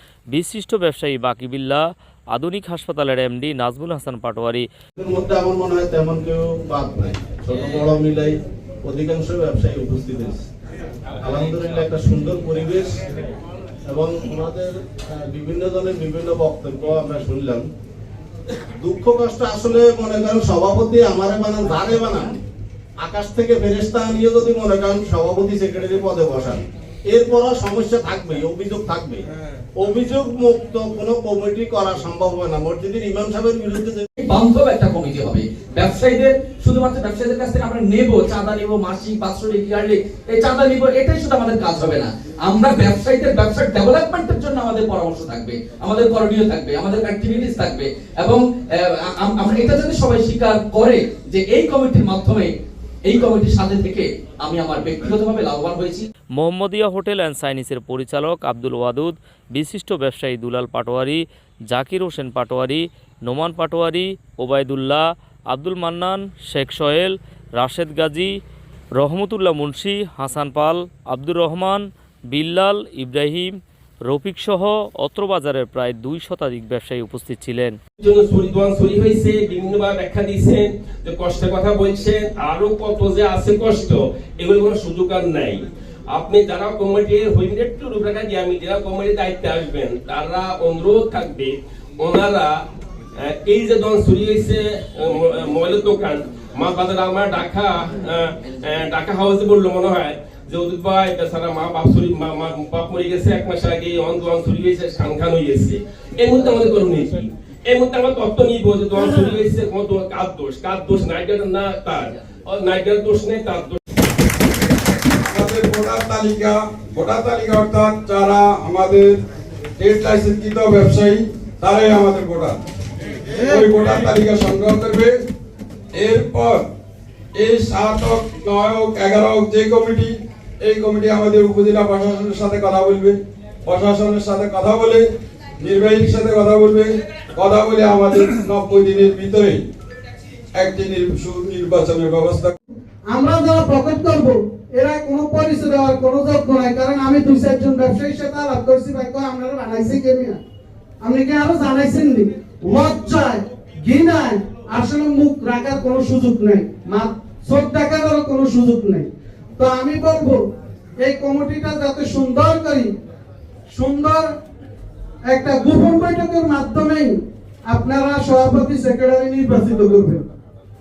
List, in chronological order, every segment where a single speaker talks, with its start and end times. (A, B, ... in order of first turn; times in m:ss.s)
0:00.3-0:04.7 A
0:05.0-0:10.5 B
0:11.2-0:13.0 B
0:13.9-0:17.7 B
0:18.8-0:22.4 B
0:23.0-0:34.0 B
0:34.2-0:52.5 C
0:53.0-0:56.1 C
0:56.4-1:08.3 A
1:09.0-1:13.5 A
1:14.0-1:17.8 A
1:18.0-1:32.6 D
1:33.2-1:53.8 D
1:55.3-1:59.2 E
1:59.8-2:02.6 E
2:03.4-2:05.2 E
2:05.9-2:06.6 E
2:07.3-2:15.1 E
2:15.6-2:19.6 E
2:20.5-2:22.6 E
2:23.1-2:30.4 F
2:31.0-2:40.4 F
2:41.0-2:42.9 F
2:43.7-2:44.3 F
2:45.3-2:47.1 F
2:47.7-2:50.3 F